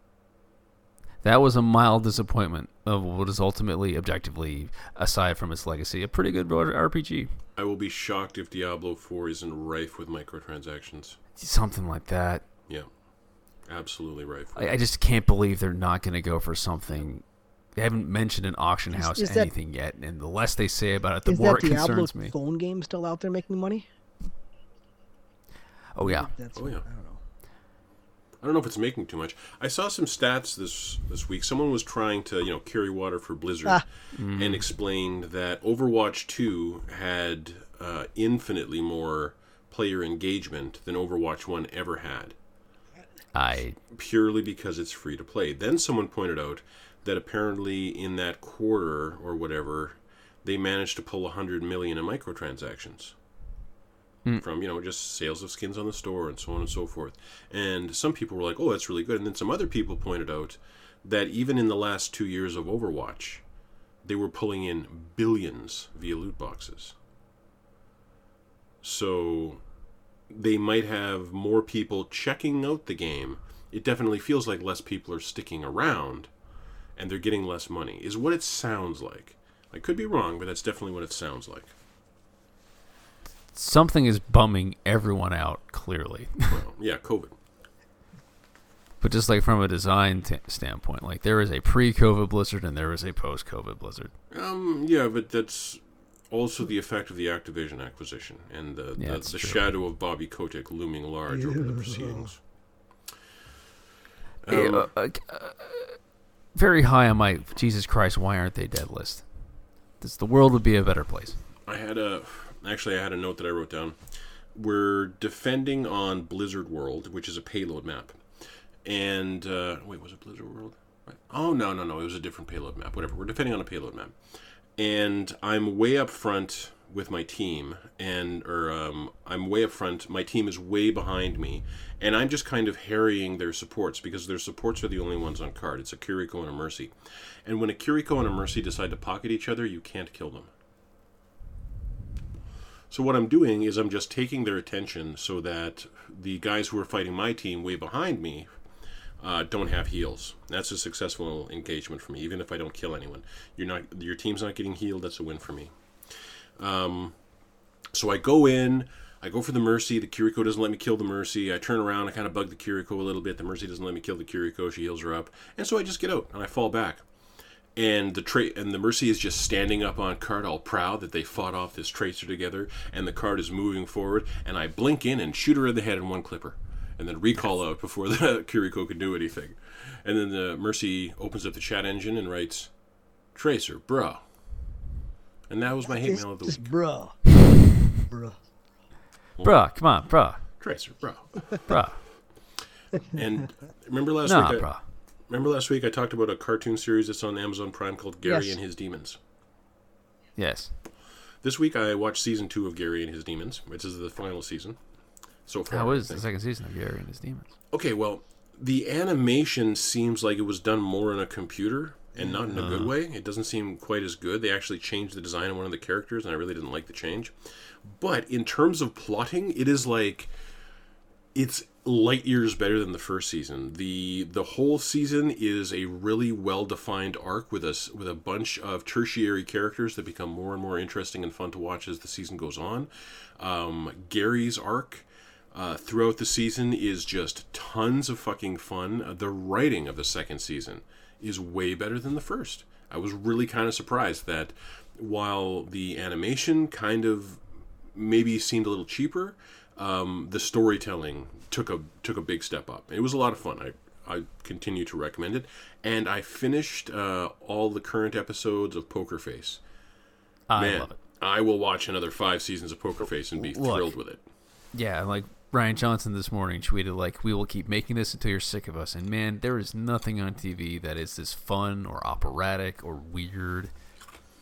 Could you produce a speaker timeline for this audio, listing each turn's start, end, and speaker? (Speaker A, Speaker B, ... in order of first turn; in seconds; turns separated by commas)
Speaker A: 1.2-7.3, Speaker B: 7.6-11.2, Speaker A: 11.4-12.4, Speaker B: 13.7-14.8, Speaker A: 14.6-17.2, Speaker A: 17.8-22.3, Speaker C: 18.9-19.5, Speaker C: 21.3-23.9, Speaker A: 25.9-26.3, Speaker C: 26.0-27.2, Speaker B: 26.6-26.9, Speaker B: 28.4-42.4, Speaker A: 34.1-34.7, Speaker A: 43.4-43.8, Speaker B: 43.9-53.1, Speaker B: 54.4-63.4, Speaker B: 64.0-67.0, Speaker B: 68.8-69.6, Speaker B: 70.3-76.3, Speaker B: 77.0-81.7, Speaker A: 83.5-86.6, Speaker B: 86.5-87.3, Speaker A: 89.0-94.1, Speaker B: 94.3-102.4, Speaker A: 99.0-99.7, Speaker C: 101.3-102.3, Speaker B: 104.5-104.9, Speaker A: 104.5-106.0, Speaker A: 106.5-109.2, Speaker A: 110.0-111.4, Speaker B: 111.7-114.0, Speaker B: 114.5-118.2, Speaker B: 118.8-124.1, Speaker B: 124.8-136.9, Speaker B: 137.4-140.5, Speaker B: 142.9-148.5, Speaker B: 149.2-157.2, Speaker B: 157.9-167.1, Speaker B: 167.8-182.7, Speaker B: 183.3-184.2, Speaker B: 185.5-186.7, Speaker C: 185.9-187.4, Speaker C: 188.0-188.4, Speaker A: 189.4-190.4, Speaker B: 190.6-191.6, Speaker A: 191.7-192.0, Speaker B: 193.1-194.7, Speaker A: 194.2-194.8, Speaker B: 195.3-199.2, Speaker C: 198.3-198.6, Speaker A: 200.4-200.7, Speaker B: 201.4-204.8, Speaker B: 205.5-206.2, Speaker A: 205.7-207.5, Speaker B: 207.7-220.3, Speaker C: 212.2-212.6, Speaker A: 212.6-212.9, Speaker B: 221.3-259.6, Speaker A: 260.5-261.0, Speaker B: 260.6-264.2, Speaker A: 263.4-263.9, Speaker A: 264.7-273.7